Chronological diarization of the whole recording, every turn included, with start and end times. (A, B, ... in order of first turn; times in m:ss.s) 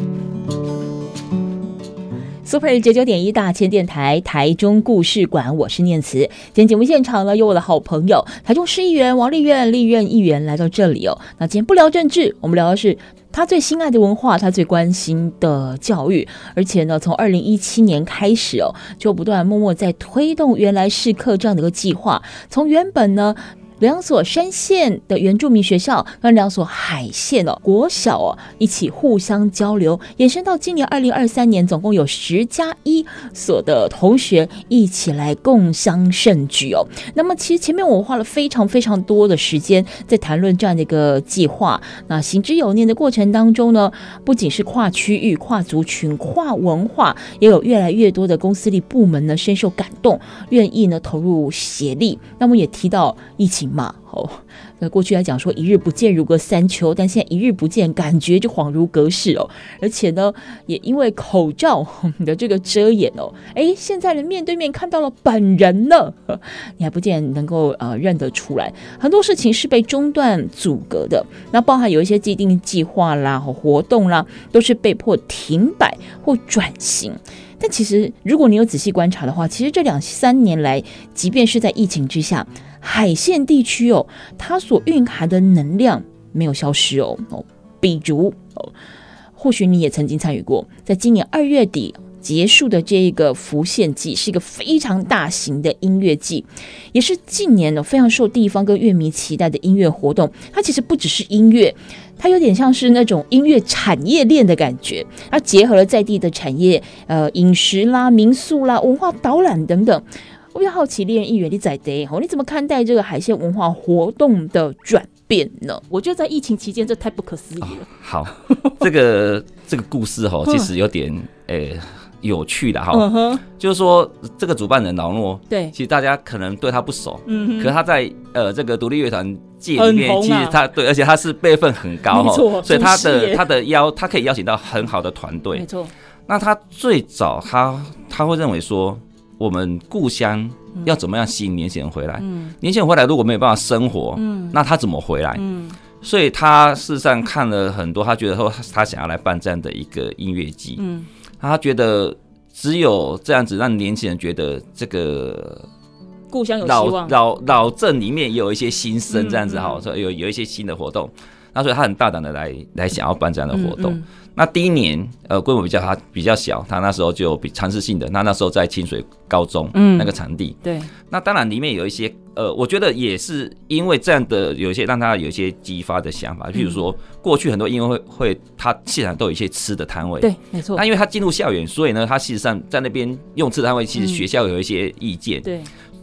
0:02.4-1:28.7 A
1:29.4-1:55.8 A
1:55.9-1:57.8 B
1:57.7-2:15.6 C
1:58.4-1:58.8 B
2:02.9-2:03.4 B
2:07.2-2:07.7 B
2:09.8-2:10.6 B
2:12.1-2:13.4 B
2:15.5-2:15.9 B
2:16.3-2:25.4 C
2:22.2-2:22.5 B
2:24.2-2:24.6 B
2:25.3-2:25.7 B
2:26.0-2:30.8 C
2:30.8-2:31.1 B
2:31.4-2:35.6 C
2:36.3-2:37.2 B
2:36.6-2:50.6 C
2:39.1-2:39.8 B
2:43.5-2:44.0 B
2:49.7-2:50.1 B
2:50.6-2:50.9 B
2:51.1-3:05.4 C
3:00.2-3:00.8 B
3:04.0-3:04.2 B
3:05.4-3:05.7 B